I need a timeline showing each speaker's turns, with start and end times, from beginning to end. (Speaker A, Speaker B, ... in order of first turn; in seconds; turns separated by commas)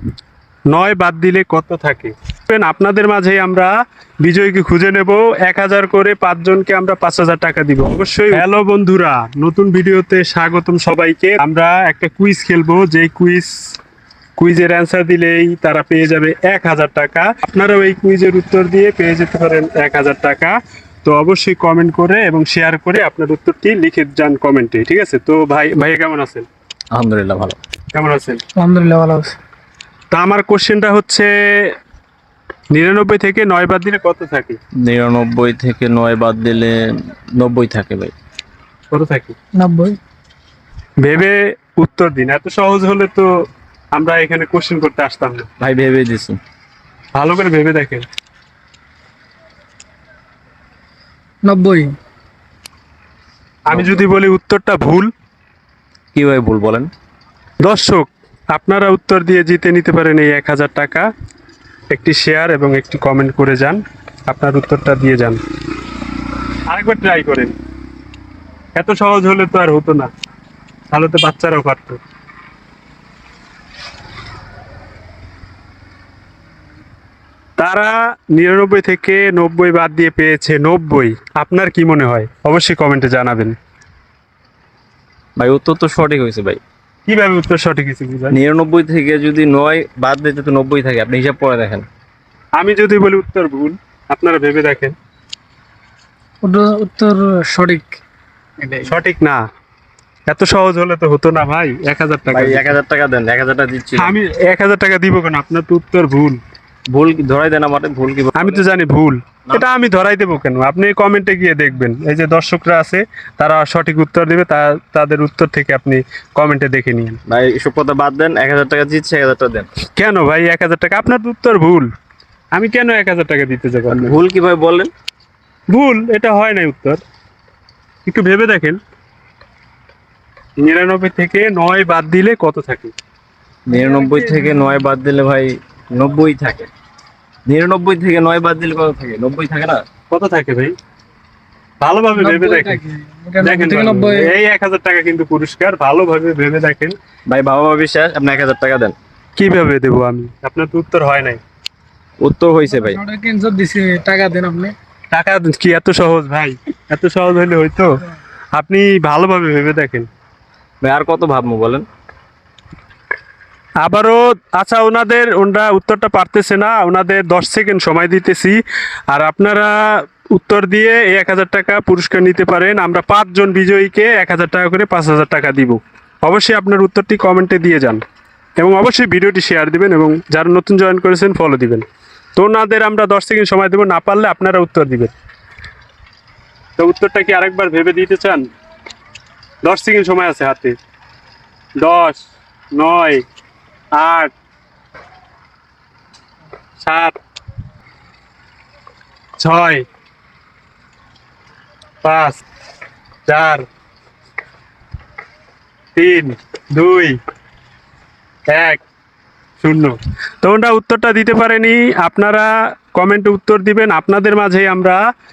Speaker A: 0.7-3.7, Speaker A: 4.2-13.8, Speaker A: 14.4-26.5, Speaker B: 26.9-27.6, Speaker A: 27.9-28.4, Speaker C: 28.6-29.4, Speaker A: 30.1-31.7, Speaker A: 32.7-34.6, Speaker B: 34.8-38.1, Speaker A: 38.9-39.4, Speaker C: 39.5-40.0, Speaker A: 41.0-43.3, Speaker A: 43.9-45.5, Speaker B: 45.6-46.4, Speaker A: 47.1-48.0, Speaker C: 51.4-52.0, Speaker A: 53.7-55.1, Speaker B: 53.7-54.0, Speaker B: 56.1-56.9, Speaker A: 57.6-61.1, Speaker A: 61.9-65.4, Speaker A: 66.7-67.5, Speaker A: 68.8-70.1, Speaker A: 70.9-72.0, Speaker A: 77.6-83.6, Speaker B: 85.4-86.6, Speaker A: 87.1-88.4, Speaker B: 88.3-91.9, Speaker A: 92.6-94.9, Speaker C: 96.4-98.0, Speaker C: 98.6-98.9, Speaker A: 98.8-99.4, Speaker A: 100.3-102.8, Speaker B: 102.3-104.2, Speaker A: 104.0-106.4, Speaker B: 106.9-108.7, Speaker A: 108.3-117.2, Speaker B: 117.3-119.7, Speaker A: 120.0-121.9, Speaker A: 122.5-124.2, Speaker B: 123.9-124.9, Speaker A: 125.7-127.0, Speaker A: 128.1-128.8, Speaker A: 130.6-132.9, Speaker B: 133.7-136.7, Speaker C: 133.8-134.5, Speaker B: 137.5-139.8, Speaker A: 140.1-140.8, Speaker A: 141.8-142.8, Speaker C: 142.2-144.3, Speaker A: 143.4-147.0, Speaker B: 147.3-148.9, Speaker A: 149.4-151.4, Speaker B: 152.2-153.0, Speaker C: 152.7-154.8, Speaker A: 155.1-157.9, Speaker A: 158.5-160.1, Speaker B: 160.8-161.9, Speaker A: 163.8-168.6, Speaker A: 169.1-169.7, Speaker A: 170.3-178.0, Speaker A: 178.6-181.8, Speaker A: 182.4-185.1, Speaker A: 186.8-188.4, Speaker A: 189.6-190.8, Speaker A: 191.8-193.2, Speaker A: 193.9-194.3, Speaker A: 196.8-197.2, Speaker A: 199.4-199.8, Speaker A: 202.0-202.4, Speaker A: 203.3-203.7, Speaker A: 205.9-207.2, Speaker A: 208.5-208.8, Speaker A: 209.6-215.0